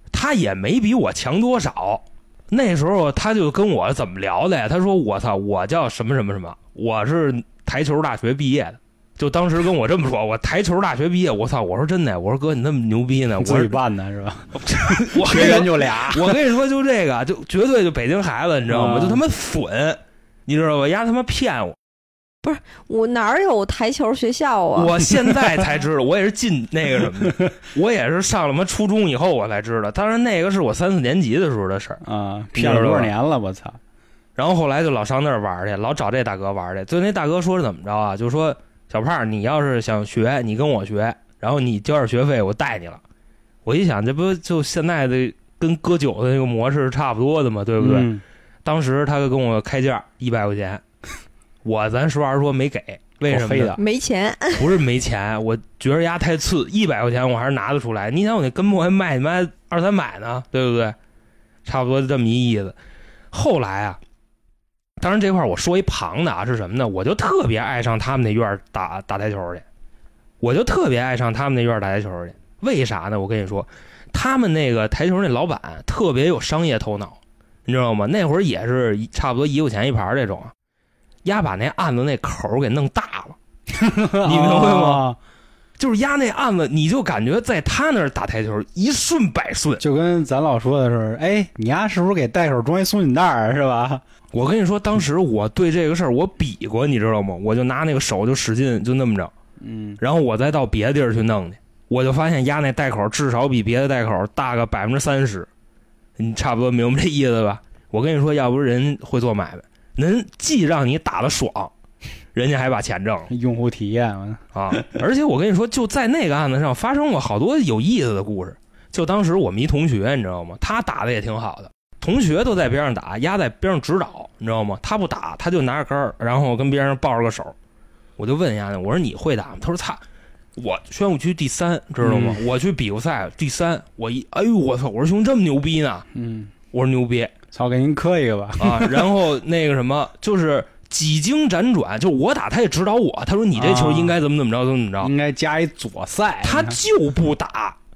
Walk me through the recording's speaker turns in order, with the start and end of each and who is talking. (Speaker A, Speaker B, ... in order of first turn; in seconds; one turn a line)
Speaker A: 0.1-13.8
Speaker B: 13.4-16.4
Speaker A: 14.5-21.8
Speaker B: 18.7-19.2
Speaker C: 22.4-25.0
Speaker A: 24.7-32.0
Speaker B: 32.0-33.8
Speaker A: 32.5-33.1
Speaker A: 34.4-43.0
Speaker A: 43.6-48.1
Speaker B: 47.8-48.2
Speaker A: 48.6-50.8
Speaker A: 51.6-53.8
Speaker B: 53.3-53.8
Speaker C: 53.8-54.7
Speaker A: 54.6-61.0
Speaker A: 61.6-62.8
Speaker A: 63.3-64.0
Speaker A: 65.0-69.7
Speaker A: 70.4-80.5
Speaker A: 81.2-83.4
Speaker B: 83.7-85.2
Speaker A: 84.2-85.0
Speaker A: 85.8-89.8
Speaker B: 89.8-94.0
Speaker A: 94.3-99.3
Speaker B: 99.6-100.0
Speaker A: 100.0-105.5
Speaker A: 106.2-111.7
Speaker A: 112.3-113.3
Speaker B: 113.3-114.9
Speaker A: 114.5-127.5
Speaker A: 128.2-130.0
Speaker A: 130.6-136.1
Speaker B: 132.0-132.4
Speaker B: 136.1-136.5
Speaker A: 136.7-137.3
Speaker B: 137.5-139.1
Speaker A: 138.6-145.1
Speaker B: 143.5-144.2
Speaker B: 145.0-146.8
Speaker A: 146.4-147.8